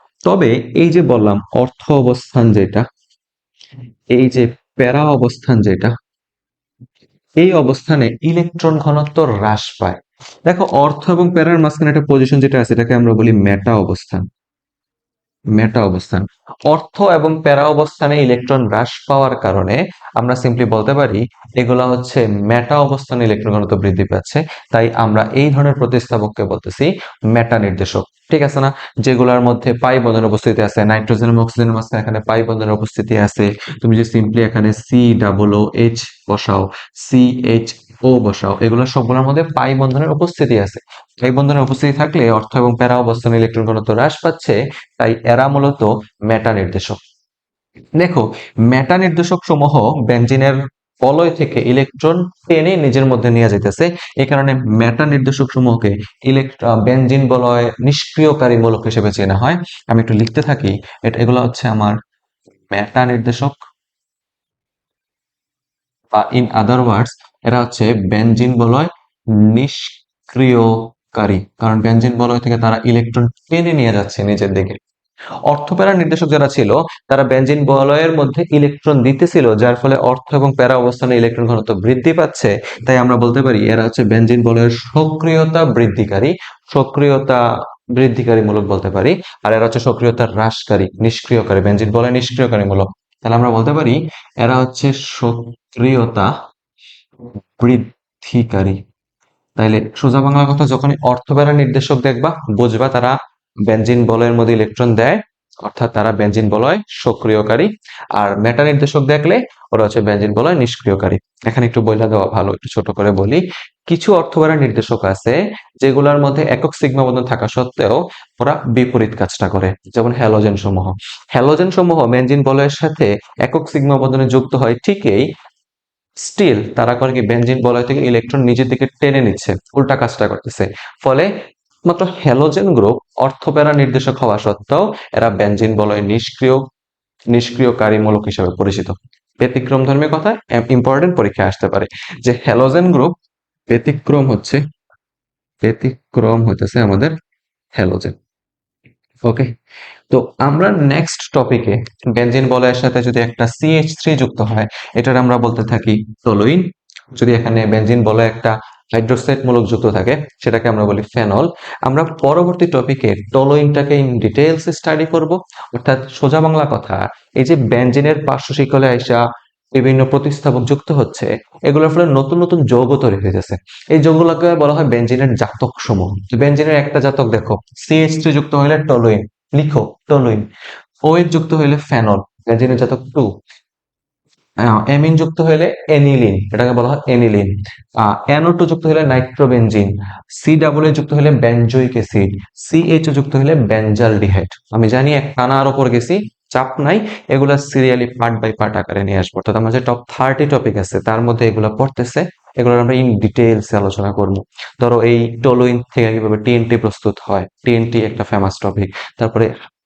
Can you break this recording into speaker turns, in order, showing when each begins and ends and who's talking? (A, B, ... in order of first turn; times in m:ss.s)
0:00.3-0:02.8 A
0:04.1-0:05.9 A
0:07.4-0:14.2 A
0:15.6-0:47.0 A
0:48.0-1:02.0 A
1:02.7-1:03.6 A
1:06.1-1:14.8 A
1:15.5-1:27.4 A
1:27.9-1:36.3 A
1:37.6-1:38.8 A
1:39.6-1:43.2 A
1:43.7-2:05.3 A
2:06.2-2:11.3 A
2:11.9-2:16.6 A
2:17.3-2:23.1 A
2:23.7-2:24.6 A
2:25.6-2:27.1 A
2:27.8-2:28.2 A
2:29.3-2:29.5 A
2:30.1-2:36.6 A
2:37.2-2:49.2 A
2:49.7-3:00.4 A
3:01.1-3:03.3 A
3:04.6-3:29.5 A